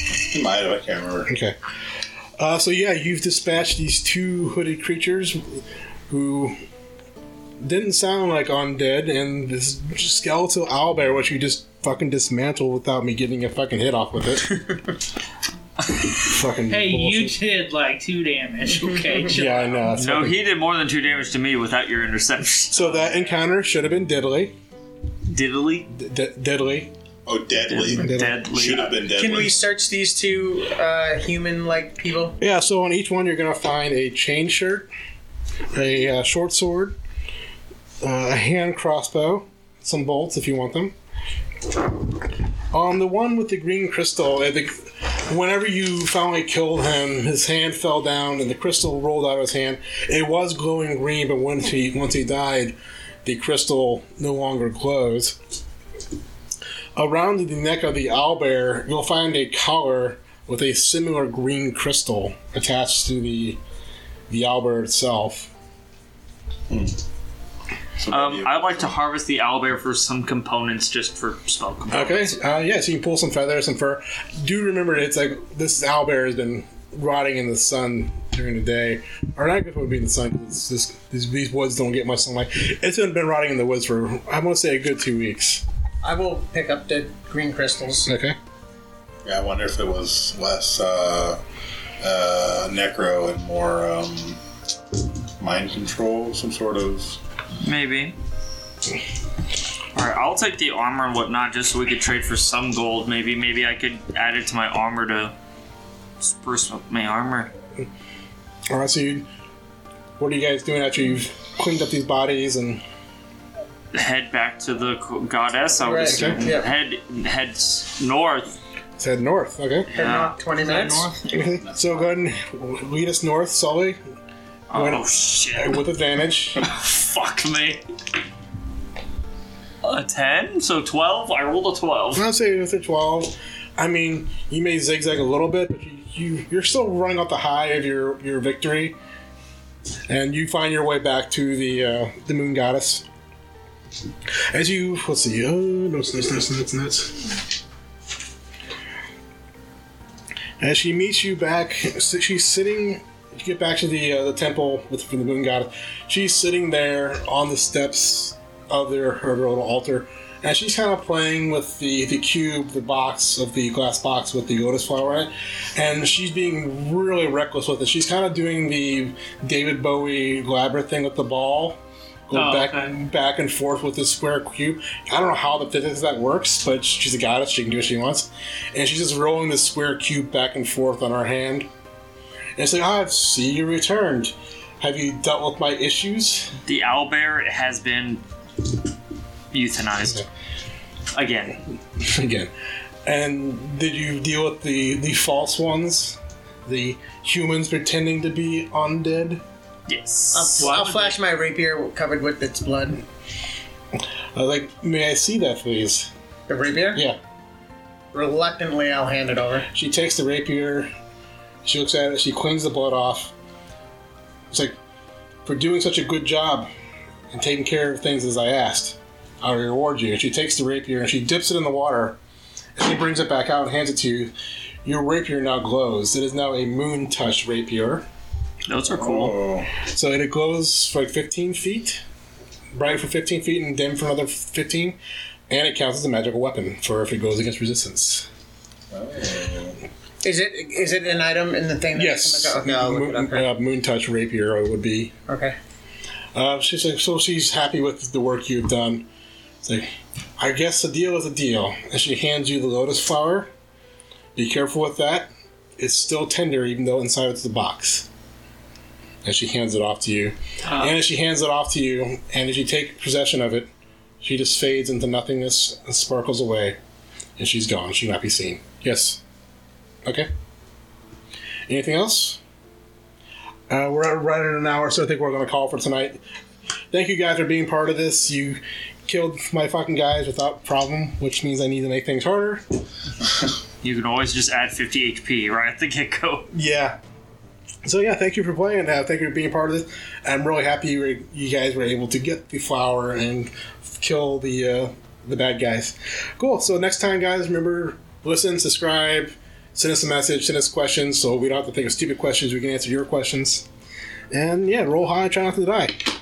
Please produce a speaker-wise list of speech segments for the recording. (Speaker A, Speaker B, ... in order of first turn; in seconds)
Speaker A: 0.2-1.3, 27.2-29.6, 66.7-67.0, 68.0-68.9, 89.2-91.4, 92.0-94.4, 95.4-97.2, 228.9-229.7, 238.9-239.8
Speaker B: 1.3-1.6, 2.4-6.5, 7.6-14.6, 16.2-17.4, 19.3-20.4, 22.7-24.5, 25.9-26.9, 28.0-28.4, 32.4-34.9, 35.7-37.0, 38.0-40.9, 42.7-55.4, 57.0-63.6, 64.3-65.5, 71.9-85.6, 88.0-88.3, 108.7-109.3, 110.2-112.8, 116.1-116.3, 119.0-119.9, 121.3-124.0, 124.7-126.6, 132.1-138.9, 140.1-143.0, 144.5-147.4, 150.6-181.7, 182.6-186.6, 192.0-192.5, 193.0-199.4, 203.9-206.1, 209.7-210.9, 211.6-213.3, 214.5-214.8, 215.4-216.7, 217.3-222.2, 222.8-224.3, 224.8-228.1, 229.7-232.0, 232.7-235.0, 235.5-238.3, 241.9-245.1, 246.3-249.1, 249.6-253.5, 254.3-258.1, 259.2-266.8, 267.4-269.2, 271.7-272.4, 273.7-276.2, 276.9-282.6, 286.5-287.0, 287.8-303.7, 304.3-306.1
Speaker C: 16.7-19.8, 120.7-121.1, 172.3-172.9, 200.6-201.2, 260.7-260.9
Speaker D: 19.9-23.0, 25.3-25.9, 27.7-29.0, 68.1-72.4, 97.6-98.2, 99.9-105.3, 106.2-107.5, 113.9-118.6, 119.9-121.2, 124.7-125.8, 126.6-127.8, 129.8-132.2, 186.6-188.2, 189.5-190.2, 191.1-191.6, 199.9-200.8, 228.7-229.4, 283.8-286.5
Speaker E: 29.1-32.4, 86.0-88.1, 115.8-116.7, 119.9-121.1, 200.3-203.0, 206.5-207.0, 208.1-209.7, 240.2-243.5, 245.3-245.5